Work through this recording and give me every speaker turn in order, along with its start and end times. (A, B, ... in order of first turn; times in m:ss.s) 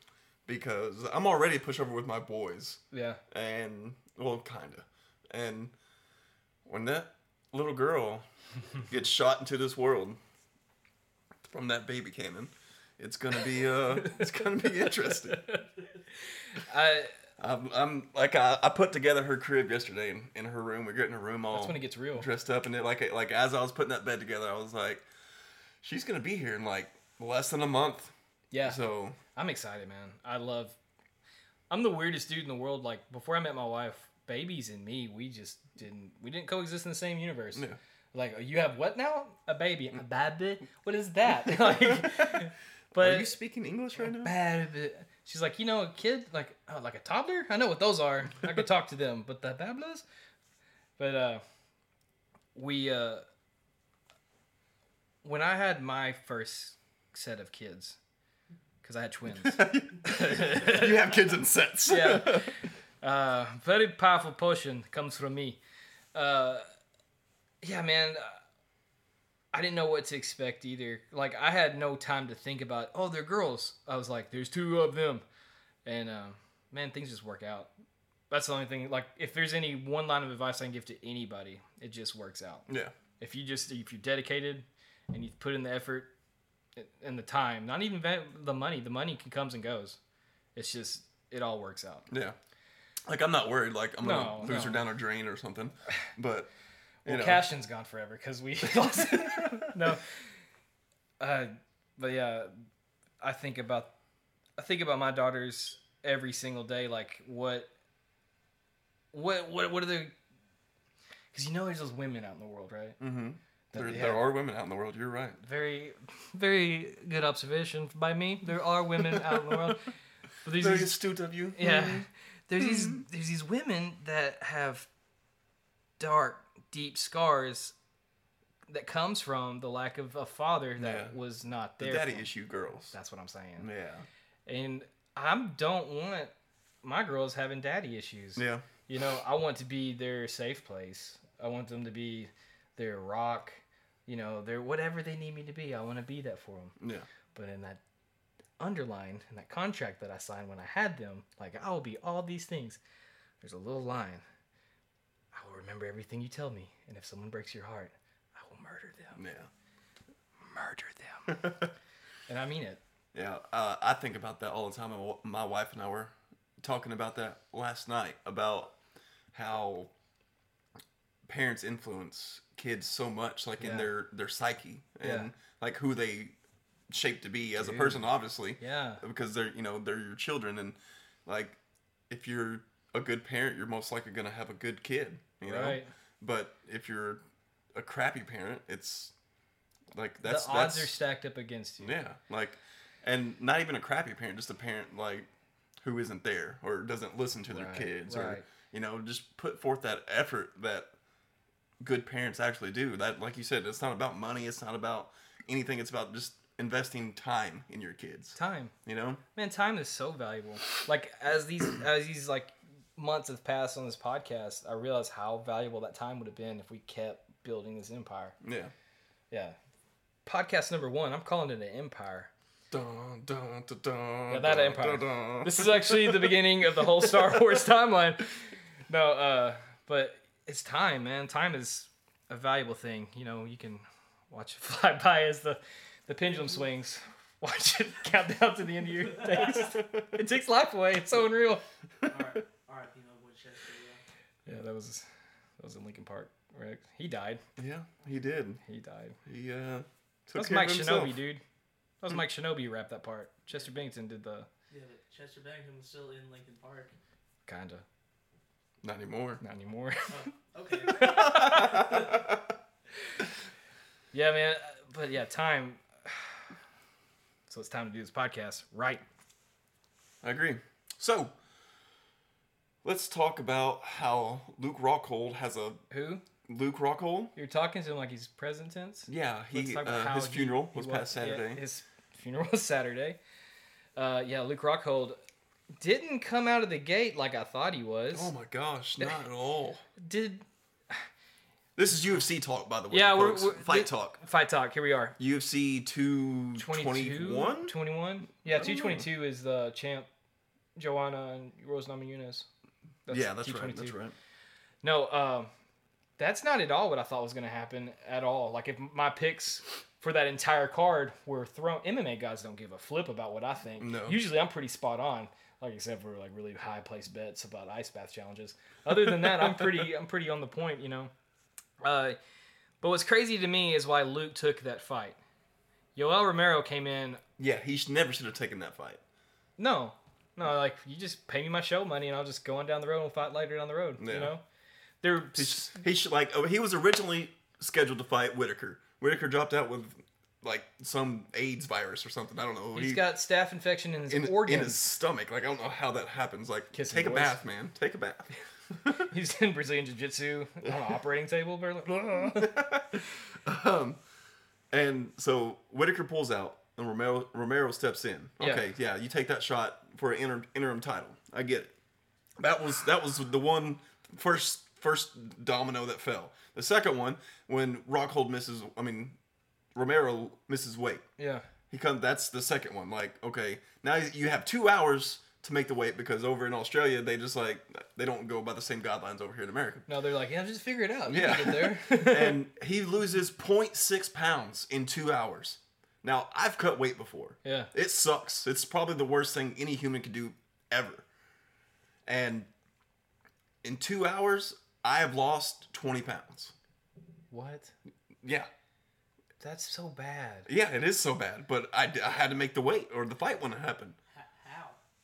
0:00.4-0:05.7 A
0:02.9-0:03.2 B
0:06.6-0:08.2 A
0:08.8-0:10.2 A
0:11.4-0:15.4 A
0:14.0-0:15.6 B
0:16.5-0:17.1 B
0:17.4-0:25.0 A
0:21.5-0:22.3 B
0:25.8-0:28.1 A
0:28.5-0:28.8 B
0:28.6-0:29.2 A
0:29.3-0:30.8 B
0:31.7-0:43.3 B
0:41.4-0:42.4 A
0:43.0-0:44.3 A
0:44.0-0:50.0 B
0:51.0-0:51.4 B
0:52.5-0:53.2 B
0:55.2-0:58.0 B
0:58.8-1:01.1 B
0:59.4-1:02.5 A
1:01.8-1:05.6 B
1:06.1-1:06.6 B
1:07.6-1:08.4 B
1:09.5-1:15.2 B
1:15.8-1:17.7 B
1:18.3-1:22.7 B
1:22.7-1:22.9 A
1:23.2-1:26.1 B
1:26.8-1:30.0 B
1:30.5-1:32.1 B
1:32.1-1:32.4 A
1:33.1-1:36.5 A
1:34.0-1:34.8 B
1:37.0-1:37.4 A
1:37.0-1:40.0 B
1:38.8-1:39.6 A
1:41.2-1:42.5 B
1:43.2-1:43.9 B
1:44.6-1:47.7 B
1:49.1-1:50.1 B
1:51.3-1:53.0 B
1:53.0-1:55.4 A
1:53.7-1:54.2 B
1:55.4-1:59.9 B
1:59.1-1:59.8 A
2:00.4-2:01.0 B
2:00.5-2:02.0 A
2:01.5-2:04.9 B
2:02.6-2:03.0 A
2:06.0-2:07.7 B
2:08.7-2:12.3 B
2:10.8-2:11.2 A
2:11.8-2:12.9 A
2:12.9-2:13.7 B
2:13.6-2:14.0 A
2:14.4-2:16.3 B
2:16.8-2:26.8 B
2:18.4-2:18.6 A
2:26.8-2:27.1 A
2:27.3-2:27.8 B
2:28.6-2:32.8 B
2:33.4-2:34.2 B
2:35.3-2:39.2 B
2:39.2-2:39.5 A
2:40.4-2:41.5 B
2:41.3-2:41.7 A
2:42.3-2:42.8 B
2:43.1-2:48.7 A
2:49.3-2:49.9 A
2:51.3-2:56.3 A
2:53.6-2:53.9 B
2:55.0-2:55.3 B
2:56.9-3:01.6 A
2:57.6-2:58.0 B
2:58.6-2:59.0 B
3:02.1-3:07.2 A
3:05.4-3:05.9 B
3:07.7-3:09.1 A
3:09.9-3:10.9 A
3:10.2-3:12.0 B
3:11.8-3:15.3 A
3:15.8-3:20.9 A
3:17.5-3:18.4 B
3:21.8-3:29.2 A
3:28.4-3:28.7 B
3:29.3-3:38.4 B
3:38.4-3:38.7 A
3:39.3-3:39.6 B
3:40.2-3:42.3 B
3:42.7-3:47.4 A
3:44.3-3:48.4 B
3:48.9-4:01.6 B
4:02.0-4:04.0 C
4:04.4-4:05.0 B
4:05.6-4:07.4 B
4:07.6-4:08.6 A
4:08.6-4:09.2 B
4:09.2-4:11.2 A
4:10.3-4:11.4 B
4:12.0-4:14.5 B
4:14.7-4:16.9 C
4:17.5-4:17.8 B
4:18.8-4:19.4 A
4:19.4-4:20.2 B
4:20.1-4:22.2 C
4:20.8-4:22.0 B
4:21.0-4:22.4 A
4:24.1-4:26.4 B
4:27.5-4:29.0 B
4:30.2-4:31.3 A
4:32.8-4:35.8 A
4:35.9-4:36.2 B
4:36.5-4:37.3 A
4:37.3-4:43.2 B
4:39.1-4:41.6 A
4:44.0-4:45.2 B
4:45.8-4:48.3 B
4:48.1-4:49.8 A
4:50.0-4:51.0 B
4:51.8-4:54.2 A
4:52.9-4:55.2 B
4:55.2-4:57.7 A
4:56.6-5:00.1 B
4:58.4-4:59.1 A
5:00.8-5:02.5 B
5:03.1-5:03.9 B
5:03.1-5:04.1 A
5:04.8-5:05.5 B
5:06.2-5:21.1 B
5:13.8-5:14.2 A
5:21.8-5:22.2 B
5:22.8-5:25.2 B
5:25.9-5:27.2 B
5:27.4-5:29.0 A
5:29.6-5:34.4 B
5:34.0-5:34.3 A
5:35.0-5:35.7 B
5:35.3-5:43.0 A
5:42.7-5:44.8 B
5:44.1-5:48.3 A
5:46.7-5:47.4 B
5:48.9-5:52.8 B
5:52.4-5:54.0 A
5:54.7-6:01.7 A
5:58.4-5:58.7 B
6:02.4-6:09.2 A
6:09.7-6:11.0 A
6:11.2-6:11.4 B
6:11.7-6:19.9 A
6:19.9-6:22.4 B
6:21.1-6:31.0 A
6:27.4-6:27.7 B
6:32.0-6:32.5 A
6:33.6-6:36.5 A
6:37.3-6:37.7 B
6:38.2-6:38.5 A
6:39.4-6:40.5 B
6:40.5-6:44.0 A
6:44.1-6:44.8 C